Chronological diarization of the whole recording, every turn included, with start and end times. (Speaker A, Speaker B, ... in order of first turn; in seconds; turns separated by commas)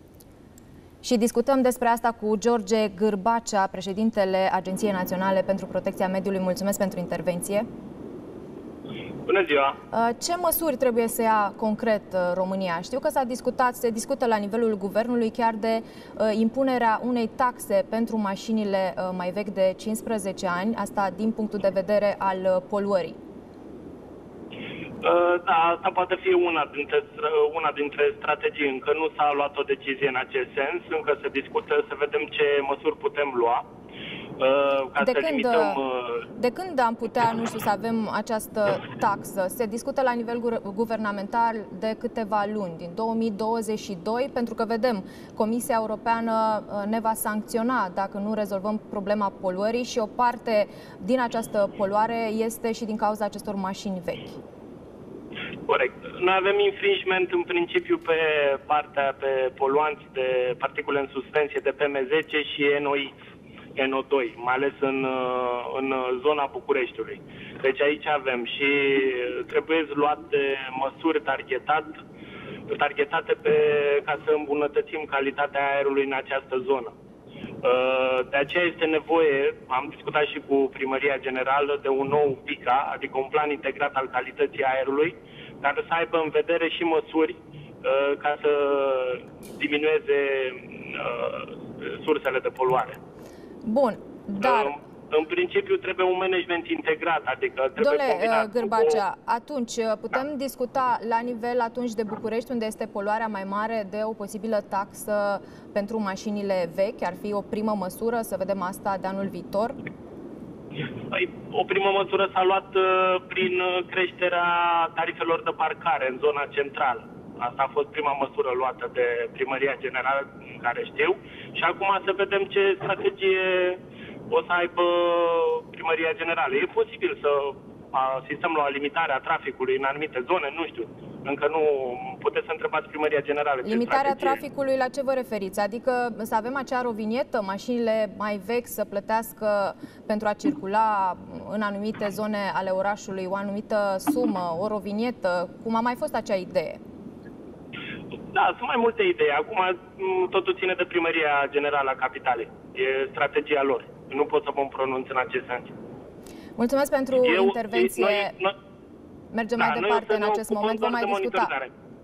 Speaker A: 1.0-7.7, Speaker B: 9.2-9.8, Speaker A: 9.9-23.2, Speaker B: 25.0-33.6, Speaker B: 34.4-36.2, Speaker A: 35.0-35.8, Speaker A: 36.3-54.4, Speaker B: 55.7-63.1, Speaker B: 63.8-72.0, Speaker B: 72.7-76.9, Speaker B: 77.6-93.0, Speaker A: 93.6-94.8, Speaker B: 94.4-99.0, Speaker A: 97.8-109.8, Speaker B: 111.1-134.4, Speaker A: 133.6-146.8, Speaker B: 148.3-155.7, Speaker A: 156.6-158.3, Speaker B: 157.2-158.6, Speaker A: 159.3-161.5, Speaker B: 159.6-161.7